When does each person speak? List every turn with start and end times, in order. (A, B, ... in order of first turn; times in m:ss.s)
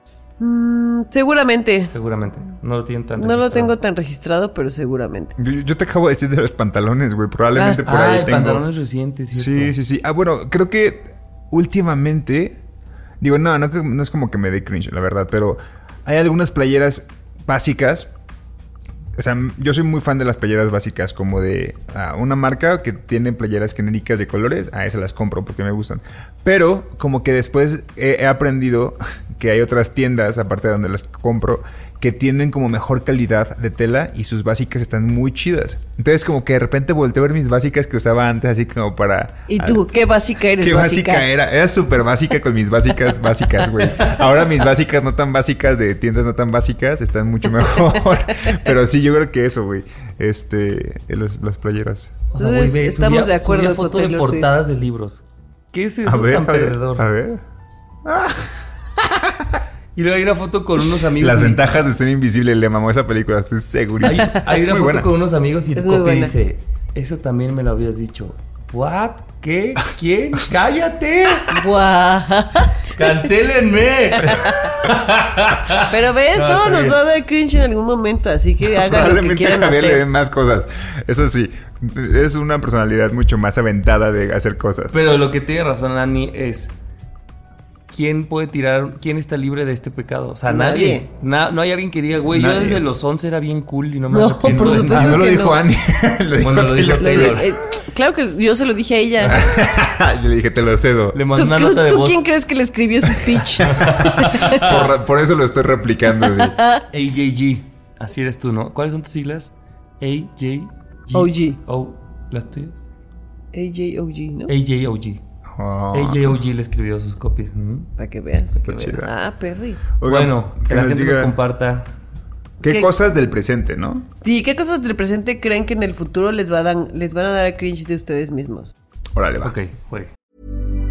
0:00.4-0:01.9 A
0:01.9-0:03.7 B
0:03.2-0:05.4 A
0:05.4-0:08.6 C
0:07.8-0:09.7 B
0:09.3-0:12.6 C
0:13.2-0:18.1 C
0:19.2-0:39.8 C
0:39.5-0:41.3 A
0:40.6-0:52.2 C
0:52.3-0:57.0 B
0:52.4-0:54.5 A
0:56.0-0:57.4 C
0:58.0-0:59.6 C
0:59.9-1:01.6 B
1:01.2-1:05.1 C
1:04.0-1:11.5 B
1:05.7-1:06.4 A
1:11.5-1:13.2 A
1:12.9-1:17.0 B
1:14.2-1:14.7 A
1:15.8-1:20.0 A
1:18.7-1:25.0 C
1:24.9-1:26.7 B
1:27.9-1:35.3 B
1:30.5-1:31.0 A
1:32.3-1:32.8 C
1:34.1-1:35.6 A
1:34.7-1:37.4 C
1:36.4-1:37.5 B
1:37.0-1:39.5 A
1:39.3-1:41.2 C
1:41.1-1:42.3 B
1:41.3-1:44.6 A
1:43.6-1:46.6 C
1:43.7-1:44.8 B
1:46.2-1:46.8 A
1:46.9-1:52.8 B
1:51.1-1:51.6 A
1:53.5-1:54.5 A
1:54.5-1:55.2 B
1:55.5-1:56.4 C
1:55.9-1:57.9 B
1:58.0-1:59.8 A
1:58.6-1:59.1 C
2:00.0-2:01.3 C
2:00.0-2:01.9 B
2:02.6-2:04.1 C
2:04.2-2:08.7 A
2:09.1-2:09.5 C
2:09.4-2:10.1 B